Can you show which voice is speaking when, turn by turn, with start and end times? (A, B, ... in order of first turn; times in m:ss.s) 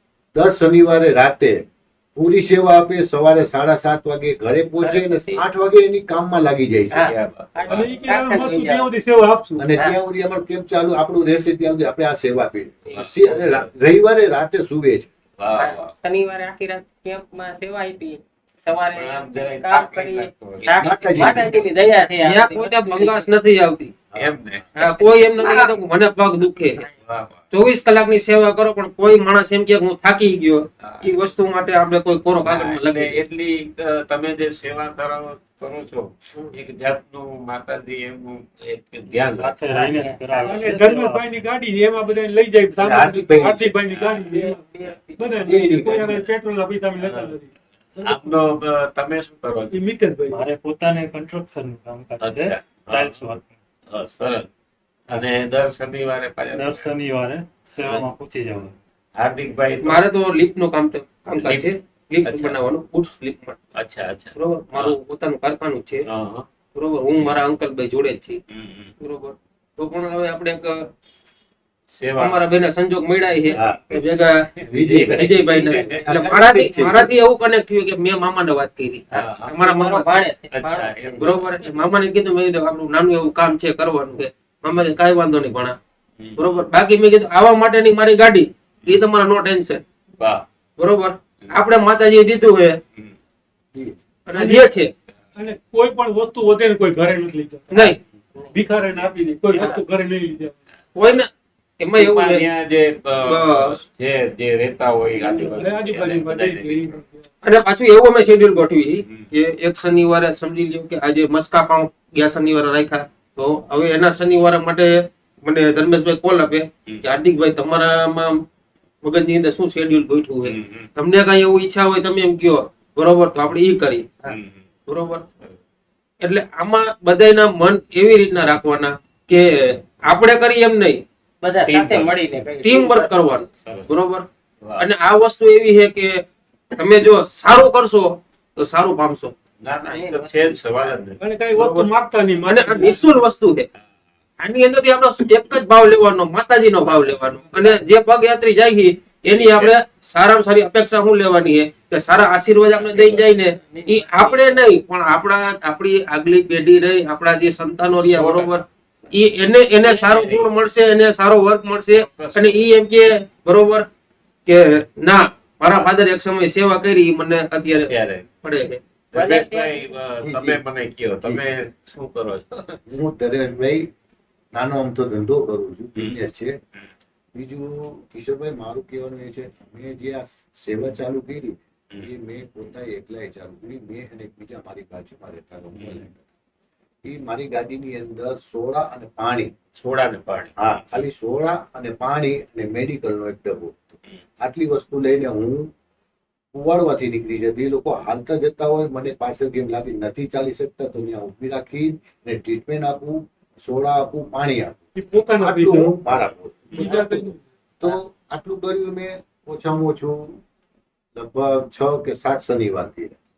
0:00.3-0:07.1 A
0:04.8-0:05.4 B
0:06.9-0:08.9 B
0:07.0-0:07.8 C
0:07.7-0:09.7 D
0:09.6-0:15.1 A
0:12.9-0:13.7 C
0:15.4-0:15.9 C
0:15.5-0:23.3 B
0:18.9-0:21.6 C
0:20.8-0:21.7 A
0:22.2-0:23.9 E
0:24.1-0:24.4 A
0:24.2-0:24.7 C
0:24.7-0:26.8 E
0:24.8-0:25.7 B
0:26.9-0:27.4 C
0:27.5-0:33.2 E
0:30.8-0:31.2 C
0:32.4-0:39.6 C
0:39.3-0:41.3 F
0:39.6-0:40.5 B
0:40.4-0:47.5 D
0:42.8-0:43.7 A
0:43.9-0:44.3 C
0:44.2-0:45.8 B
0:45.4-0:46.2 A
0:47.0-0:47.3 C
0:48.0-0:49.8 C
0:49.7-0:50.5 D
0:50.3-0:53.5 F
0:52.2-0:53.3 C
0:53.9-0:54.5 C
0:55.1-0:56.9 C
0:56.5-0:58.7 F
0:57.8-1:00.0 C
0:59.8-1:03.6 E
1:01.3-1:01.7 C
1:02.2-1:02.6 C
1:03.7-1:05.0 C
1:04.3-1:06.1 E
1:06.0-1:06.5 C
1:06.7-1:08.4 E
1:08.5-1:08.9 C
1:09.0-1:10.9 E
1:11.9-1:12.4 C
1:12.2-1:20.2 E
1:14.6-1:16.2 C
1:14.7-1:15.1 A
1:15.9-1:17.1 A
1:19.1-1:19.6 C
1:19.2-1:21.4 B
1:20.5-1:21.6 C
1:21.2-1:25.8 E
1:26.2-1:26.6 C
1:26.4-1:29.8 E
1:30.2-1:30.4 C
1:30.8-1:32.8 E
1:34.2-1:34.9 E
1:34.4-1:34.7 D
1:35.3-1:37.9 D
1:37.7-1:38.0 E
1:38.5-1:40.6 D
1:40.9-1:42.5 E
1:42.0-1:47.0 C
1:43.3-1:43.8 E
1:45.1-1:47.3 D
1:47.4-1:58.4 E
1:49.0-1:49.3 C
1:59.0-2:04.1 E
2:00.4-2:00.9 C
2:04.3-2:04.6 C
2:04.9-2:05.2 E
2:06.2-2:11.0 E
2:11.4-2:13.4 B
2:11.6-2:12.2 C
2:12.6-2:14.3 E
2:13.5-2:13.9 C
2:14.6-2:14.8 C
2:14.8-2:19.3 E
2:19.6-2:21.9 C
2:19.9-2:21.0 B
2:21.2-2:23.1 D
2:22.5-2:23.7 E
2:24.4-2:43.9 E
2:29.3-2:29.8 C
2:32.7-2:33.3 C
2:33.6-2:34.6 B
2:37.9-2:38.6 C
2:39.8-2:40.5 C
2:41.9-2:42.7 C
2:44.4-2:47.9 E
2:47.7-2:48.3 C
2:48.4-2:48.8 E
2:49.1-2:52.8 C
2:49.1-2:49.9 B
2:50.2-2:50.6 A
2:52.9-2:53.8 A
2:54.5-2:56.6 A
2:56.0-2:56.2 C
2:57.3-3:06.2 A
3:05.7-3:06.1 C
3:07.0-3:09.5 A
3:09.7-3:11.0 C
3:10.6-3:15.7 A
3:16.5-3:27.3 A
3:25.0-3:25.9 D
3:26.1-3:26.9 C
3:26.7-3:27.4 D
3:27.8-3:30.4 A
3:31.2-3:33.2 A